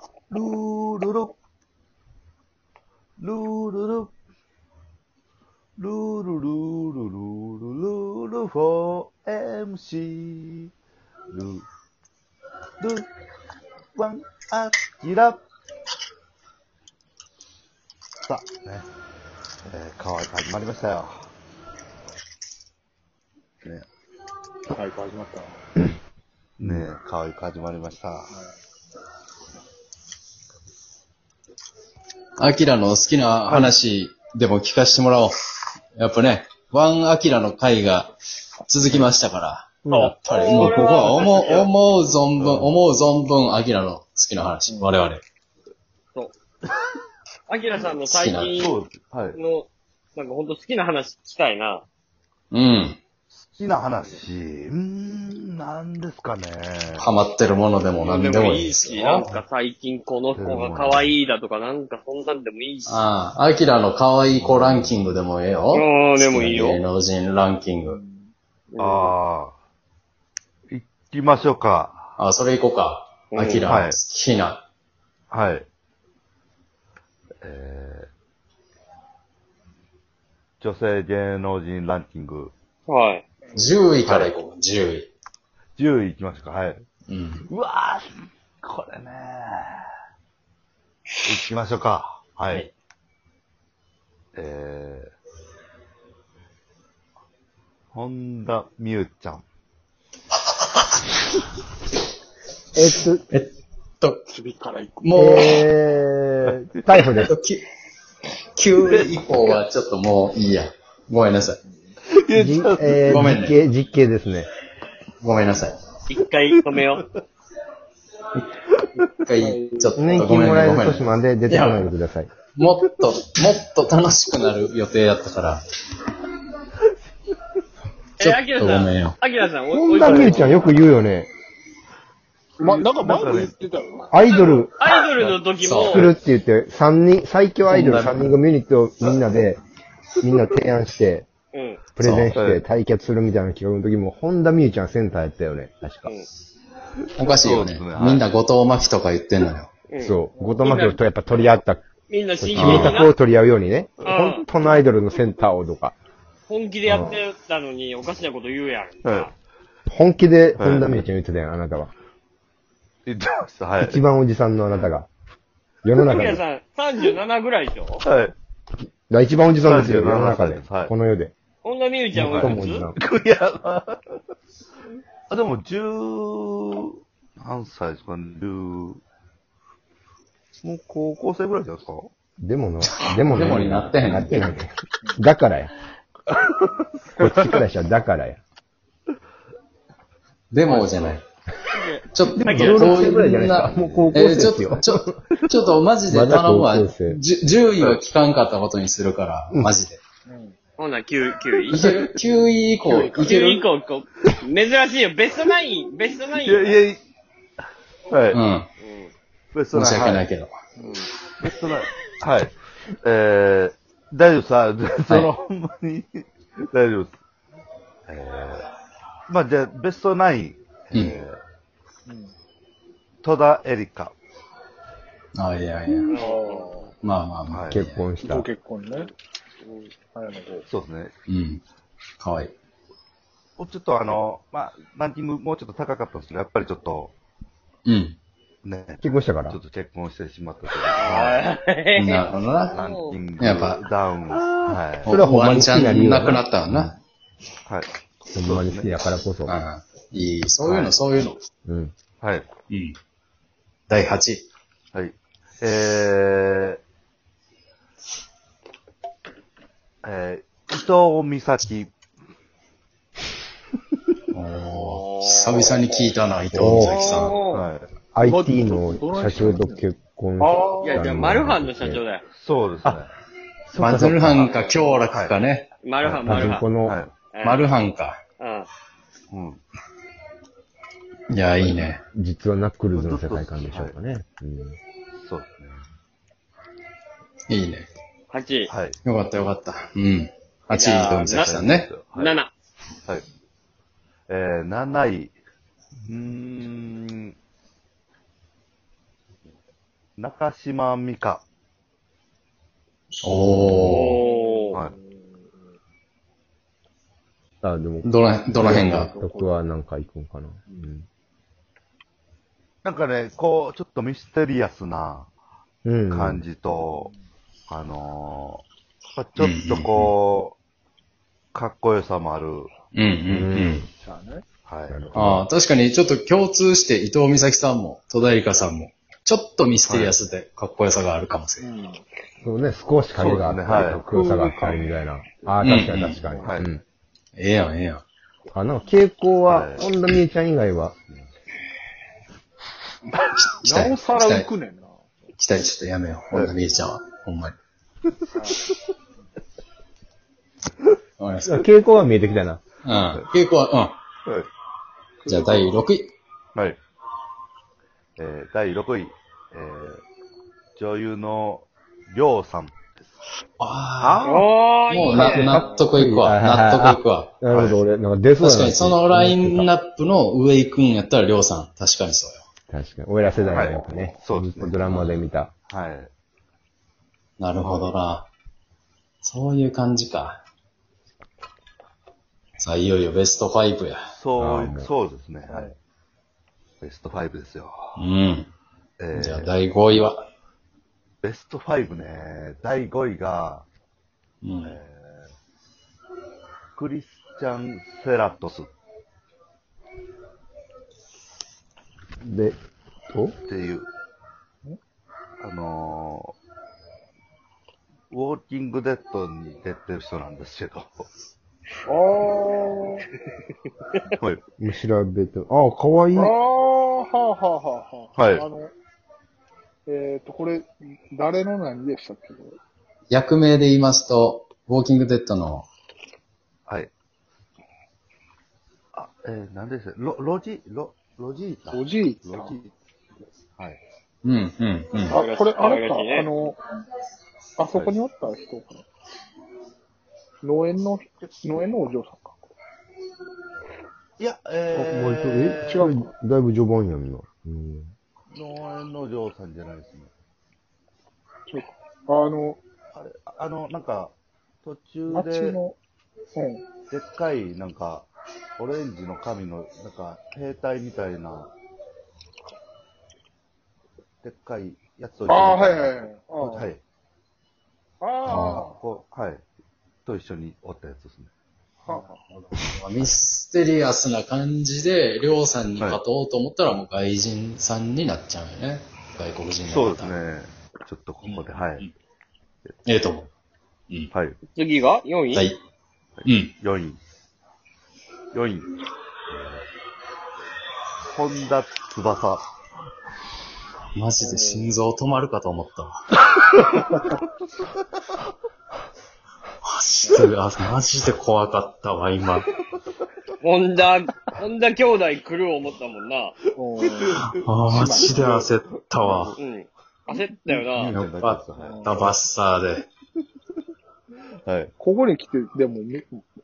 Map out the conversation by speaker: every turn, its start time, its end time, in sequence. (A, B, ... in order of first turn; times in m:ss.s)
0:00.3-0:01.3 A
0:03.2-0:04.1 A
0:05.8-0:10.7 A
0:11.3-0:11.6 A
0:12.8-0:13.1 A
0:13.9-0:15.4 A
0:18.3-0:18.9 A
0:19.6-0:21.3 A
0:24.7-0:25.6 B
0:26.6-0:28.3 A
0:32.4-0:35.3 C
0:33.4-0:33.7 A
0:36.0-0:38.1 C
0:38.6-0:45.2 C
0:38.8-0:39.1 A
0:39.8-0:40.1 D
0:39.9-0:41.7 E
0:42.4-0:42.7 A
0:47.5-0:48.7 E
0:48.0-0:48.5 C
0:48.6-0:49.4 A
0:49.3-0:51.8 E
0:52.5-0:53.0 C
0:53.3-0:57.0 A
0:57.0-0:59.4 C
0:58.0-1:03.0 E
1:00.3-1:01.1 A
1:02.9-1:08.0 C
1:04.3-1:05.0 A
1:05.7-1:06.8 E
1:07.9-1:08.3 B
1:08.7-1:09.1 E
1:08.8-1:09.6 A
1:10.7-1:12.2 A
1:12.2-1:14.6 C
1:13.3-1:13.7 E
1:13.6-1:14.0 A
1:15.3-1:15.7 A
1:17.4-1:18.1 A
1:20.6-1:22.5 A
1:22.9-1:23.2 E
1:23.5-1:25.1 C
1:24.0-1:24.4 A
1:25.8-1:26.8 A
1:27.1-1:27.4 C
1:27.5-1:29.9 A
1:31.2-1:32.6 A
1:34.3-1:35.1 A
1:37.9-1:39.4 A
1:42.7-1:43.2 D
1:43.3-1:44.2 C
1:44.3-1:45.1 B
1:45.0-1:45.6 C
1:45.2-1:47.3 D
1:47.1-1:47.6 C
1:48.6-1:51.6 C
1:48.8-1:49.6 A
1:51.7-1:51.9 B
1:52.0-1:53.1 A
1:52.3-1:54.5 D
1:53.0-1:53.6 C
1:55.2-1:55.8 C
1:56.1-1:57.0 E
1:56.5-1:57.0 A
1:58.3-1:58.6 C
1:59.2-2:01.9 C
1:59.4-2:00.0 B
2:00.0-2:02.3 D
2:02.5-2:05.6 C
2:08.2-2:10.7 E
2:08.2-2:09.2 C
2:09.8-2:11.3 D
2:10.0-2:10.6 A
2:12.6-2:13.6 A
2:12.6-2:14.6 B
2:14.1-2:14.7 D
2:14.8-2:16.1 E
2:15.2-2:16.1 C
2:15.8-2:19.6 D
2:17.6-2:18.3 C
2:20.2-2:21.3 D
2:21.5-2:21.8 E
2:22.0-2:26.1 D
2:22.0-2:22.3 C
2:22.3-2:22.6 A
2:27.1-2:29.7 C
2:27.2-2:28.2 A
2:29.9-2:31.0 E
2:30.0-2:31.8 D
2:30.3-2:30.6 B
2:32.1-2:33.1 E
2:32.4-2:35.9 D
2:32.5-2:33.0 C
2:34.0-2:34.4 E
2:36.5-2:39.3 E
2:36.8-2:37.2 D
2:39.0-2:39.3 A
2:39.9-2:41.9 D
2:40.6-2:40.9 A
2:43.0-2:44.0 A
2:43.8-2:45.1 D
2:45.8-2:46.4 D
2:46.0-2:48.0 E
2:48.0-2:48.3 A
2:49.1-2:51.3 D
2:49.6-2:50.9 A
2:51.6-2:52.9 E
2:52.1-2:53.0 D
2:52.2-2:54.1 A
2:55.3-2:59.0 A
3:00.6-3:02.1 A
3:02.4-3:05.7 D
3:03.2-3:04.6 C
3:06.3-3:07.6 A
3:07.2-3:08.4 D
3:10.5-3:11.2 C
3:10.7-3:11.2 B
3:11.7-3:13.2 E
3:12.1-3:20.0 C
3:12.3-3:15.4 D
3:13.6-3:14.2 A
3:16.1-3:17.2 D
3:20.3-3:20.6 B
3:20.8-3:21.8 E
3:21.7-3:22.1 A
3:21.7-3:23.6 C
3:22.8-3:23.4 B
3:23.1-3:26.8 E
3:26.4-3:27.0 A
3:28.1-3:28.4 A
3:28.3-3:28.7 C
3:28.8-3:29.1 E
3:29.5-3:30.3 A
3:29.7-3:30.6 C
3:30.8-3:31.0 B
3:31.4-3:37.2 A
3:35.1-3:35.3 C
3:38.1-3:38.7 A
3:39.3-3:41.4 A
3:40.9-3:41.2 C
3:42.1-3:42.3 B
3:43.2-3:44.1 A
3:45.3-3:46.1 C
3:46.1-3:46.9 E
3:46.1-3:46.9 B
3:47.0-3:48.1 C
3:47.5-3:47.8 A
3:47.7-3:48.4 D
3:48.2-3:49.1 B
3:50.1-3:50.6 B
3:50.6-3:51.1 A
3:51.3-3:51.6 C
3:52.2-3:52.5 C
3:53.6-3:57.1 A
3:57.8-3:58.2 C
3:58.6-4:01.5 A
3:59.0-3:59.6 D
4:00.8-4:03.2 E
4:02.0-4:02.8 C
4:02.7-4:05.1 A
4:03.4-4:03.8 C
4:05.0-4:07.0 C
4:05.1-4:06.9 D
4:07.6-4:09.0 A
4:08.3-4:09.6 D
4:09.5-4:11.4 C
4:11.6-4:11.9 D
4:12.2-4:12.5 A
4:12.7-4:13.0 C
4:13.9-4:14.4 C
4:14.9-4:16.8 A
4:20.0-4:21.9 A
4:24.3-4:27.4 C
4:26.5-4:27.0 D
4:26.9-4:27.4 B
4:26.9-4:27.6 E
4:27.5-4:27.9 A
4:28.1-4:32.0 D
4:28.2-4:29.8 B
4:30.4-4:31.0 B
4:30.8-4:32.2 E
4:32.3-4:33.1 A
4:33.7-4:34.4 D
4:33.8-4:35.7 C
4:34.3-4:34.7 E
4:35.1-4:35.4 A
4:35.8-4:36.6 E
4:36.0-4:37.1 A
4:36.2-4:37.0 D
4:37.3-4:37.6 E
4:37.4-4:38.2 C
4:38.4-4:38.7 E
4:39.3-4:39.6 A
4:41.3-4:42.0 C
4:42.1-4:44.8 D
4:42.9-4:43.9 A
4:45.2-4:45.8 A
4:47.5-4:47.9 C
4:48.3-4:48.7 E
4:48.7-4:49.0 A
4:49.0-4:51.9 C
4:50.7-4:52.5 E
4:51.3-4:52.4 A
4:54.3-4:55.3 A
4:56.1-4:57.3 A
5:00.2-5:01.4 A
5:03.2-5:04.2 C
5:03.8-5:04.8 E
5:04.2-5:05.5 B
5:07.6-5:11.0 D
5:08.0-5:09.1 C
5:08.7-5:09.6 B
5:12.8-5:15.3 A
5:15.8-5:16.4 D
5:16.1-5:17.1 A
5:16.8-5:17.2 B
5:17.7-5:20.6 A
5:19.4-5:20.1 C
5:21.5-5:22.7 A
5:22.9-5:23.8 C
5:23.3-5:23.8 D
5:23.9-5:24.4 B
5:24.6-5:25.1 A
5:24.9-5:25.5 D
5:25.1-5:31.6 C
5:29.9-5:30.1 A
5:31.6-5:32.0 B
5:32.4-5:36.8 D
5:33.2-5:34.0 A
5:34.1-5:36.6 B
5:35.6-5:36.2 C
5:36.4-5:36.7 A
5:37.4-5:38.0 C
5:38.5-5:41.0 D
5:39.5-5:39.9 A
5:43.1-5:44.5 C
5:43.6-5:45.1 B
5:45.4-5:47.6 C
5:48.3-5:48.6 B
5:51.2-5:51.6 C
5:51.4-5:52.6 D
5:52.8-5:54.0 C
5:55.2-5:55.8 B
5:55.3-5:56.1 C
5:58.2-6:00.0 A
6:00.8-6:03.2 A
6:03.6-6:04.2 C
6:04.0-6:04.5 A
6:04.2-6:05.9 E
6:04.9-6:07.3 C
6:05.0-6:09.7 D
6:07.5-6:07.8 A
6:08.4-6:12.4 C
6:12.7-6:15.5 D
6:13.4-6:14.8 A
6:14.8-6:15.2 C
6:15.7-6:16.1 A
6:17.4-6:18.3 C
6:19.2-6:20.4 C
6:22.6-6:24.0 C
6:24.1-6:25.7 A
6:24.4-6:24.9 D
6:26.8-6:28.0 A
6:28.0-6:28.5 C
6:29.0-6:29.5 A
6:29.1-6:30.2 C
6:31.2-6:33.6 A
6:34.4-6:34.8 C
6:34.6-6:35.3 A
6:36.7-6:38.7 A
6:42.2-6:42.6 D
6:43.1-6:43.4 D
6:43.4-6:43.9 A
6:45.4-6:46.3 A
6:48.1-6:51.0 A
6:51.8-6:53.0 B
6:54.6-6:56.3 D
6:56.1-6:58.7 B
6:58.2-6:58.4 A
6:59.8-7:02.6 B
7:03.1-7:05.7 C
7:08.9-7:12.7 A
7:11.7-7:12.6 B
7:14.2-7:15.2 C
7:15.1-7:16.6 B
7:15.1-7:16.3 E
7:17.6-7:18.8 B
7:17.7-7:18.0 A
7:20.4-7:22.4 B
7:24.2-7:25.9 A
7:24.7-7:27.9 D
7:25.7-7:26.1 B
7:28.3-7:30.1 A
7:31.5-7:32.6 B
7:32.9-7:35.6 A
7:35.1-7:35.8 B
7:36.3-7:36.6 B
7:36.9-7:41.5 A
7:44.2-7:46.8 A
7:45.2-7:46.7 B
7:48.0-7:48.8 B
7:48.2-7:48.6 C
7:48.2-7:49.4 A
7:50.0-7:51.3 A
7:51.8-7:52.2 B
7:51.9-8:00.2 C
7:59.7-8:01.9 A
8:01.2-8:01.9 C
8:02.8-8:03.3 C
8:04.1-8:04.4 A
8:04.5-8:05.4 E
8:05.3-8:05.6 C
8:06.2-8:07.0 A
8:06.2-8:06.5 C
8:08.3-8:08.7 A
8:09.3-8:09.6 A
8:11.1-8:12.4 A
8:13.9-8:16.0 C
8:14.2-8:14.8 B
8:19.6-8:22.5 C
8:20.0-8:20.3 B
8:23.4-8:26.4 E
8:26.6-8:27.1 B
8:26.8-8:28.4 A
8:27.1-8:29.4 C
8:27.7-8:28.5 B
8:29.0-8:29.3 B
8:29.4-8:30.9 E
8:30.5-8:32.1 A
8:30.9-8:32.8 C
8:31.6-8:31.9 B
8:34.4-8:34.7 A
8:34.8-8:36.2 B